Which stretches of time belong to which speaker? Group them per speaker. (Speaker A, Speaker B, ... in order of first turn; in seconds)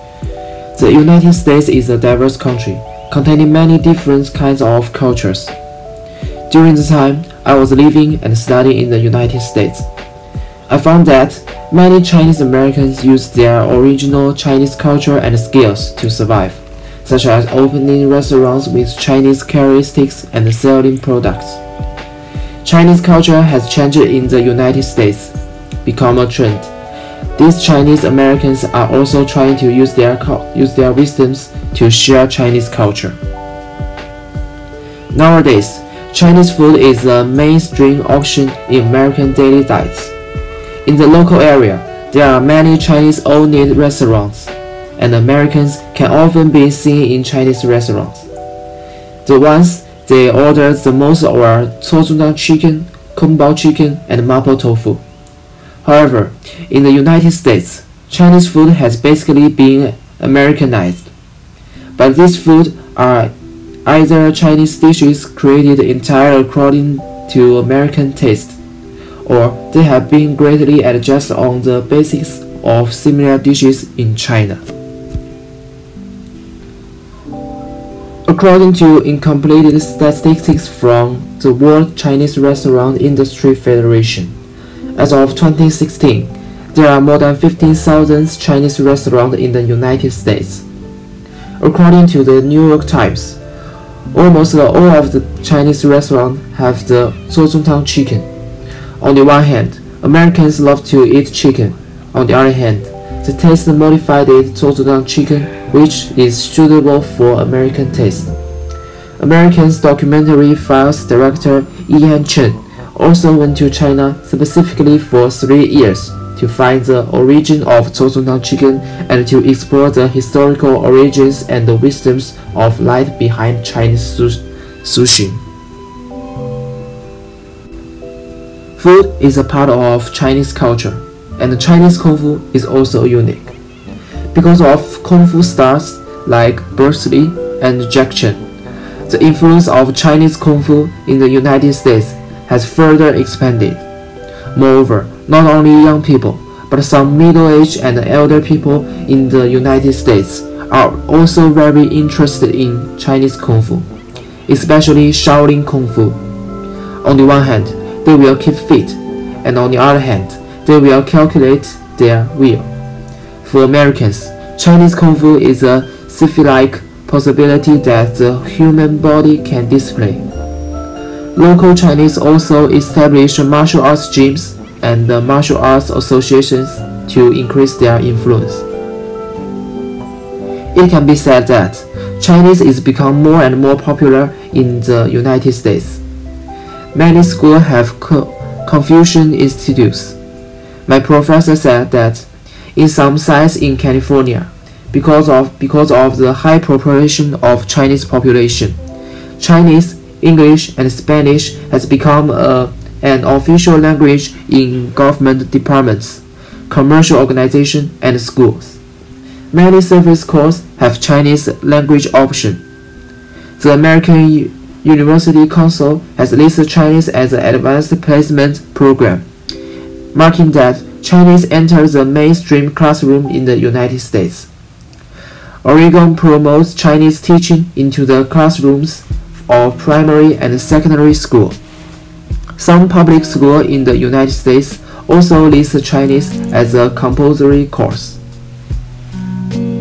Speaker A: 0.8-5.5, 6.5-9.9, 10.7-21.6, 22.6-25.3, 25.9-26.7, 27.4-33.2, 35.1-40.1, 40.9-48.3, 49.2-55.0, 55.8-61.1, 62.0-63.3, 63.9-68.6, 69.2-74.6, 78.3-84.3, 85.0-90.7, 91.6-93.4, 94.1-98.3, 99.0-108.3, 109.2-125.4, 128.8-133.5, 134.3-138.4, 139.1-143.8, 144.5-153.9, 154.5-156.2, 157.0-162.7, 163.4-170.3, 171.4-178.7, 180.7-186.0, 186.9-190.2, 190.9-198.8, 199.4-208.8, 209.5-212.6, 213.6-219.2, 220.1-224.5, 225.6-231.6, 232.6-238.2